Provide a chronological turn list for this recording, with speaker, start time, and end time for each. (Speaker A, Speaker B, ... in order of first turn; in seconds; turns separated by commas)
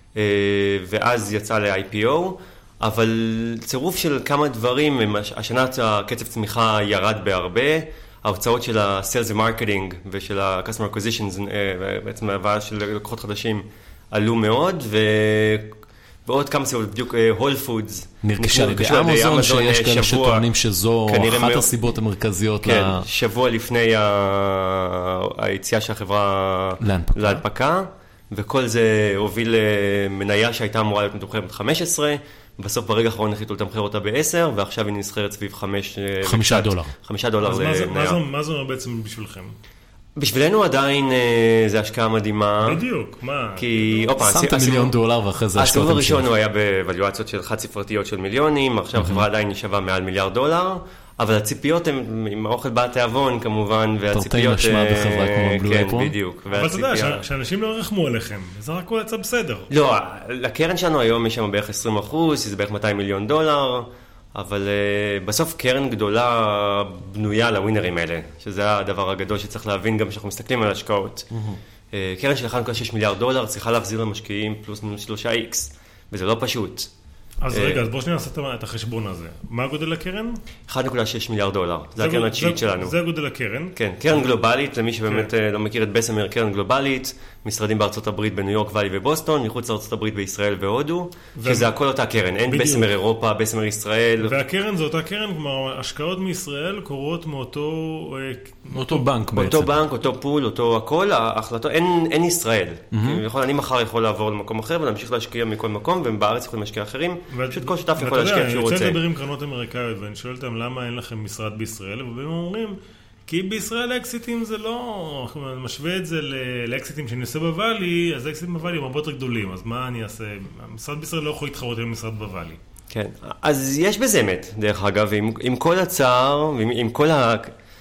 Speaker A: 0.1-20.5, Speaker B: 18.2-23.1, Speaker A: 21.1-21.7, Speaker A: 22.6-38.2, Speaker B: 26.8-27.4, Speaker B: 36.2-36.9, Speaker C: 37.4-39.5, Speaker A: 40.2-42.8, Speaker C: 42.6-44.0, Speaker A: 43.6-44.9, Speaker B: 44.2-46.3, Speaker A: 45.6-57.2, Speaker B: 49.0-49.3, Speaker B: 54.1-56.1, Speaker C: 56.5-59.7, Speaker A: 59.7-71.3, Speaker B: 71.3-71.6, Speaker A: 71.9-76.9, Speaker C: 77.4-80.4, Speaker A: 77.5-77.8, Speaker A: 80.7-83.0, Speaker C: 82.0-83.8, Speaker A: 83.8-94.4, Speaker C: 91.4-91.7, Speaker C: 92.5-92.9, Speaker C: 94.2-99.0, Speaker B: 98.7-99.7, Speaker A: 99.3-109.0, Speaker B: 102.9-103.2, Speaker C: 107.3-122.6, Speaker A: 122.9-127.5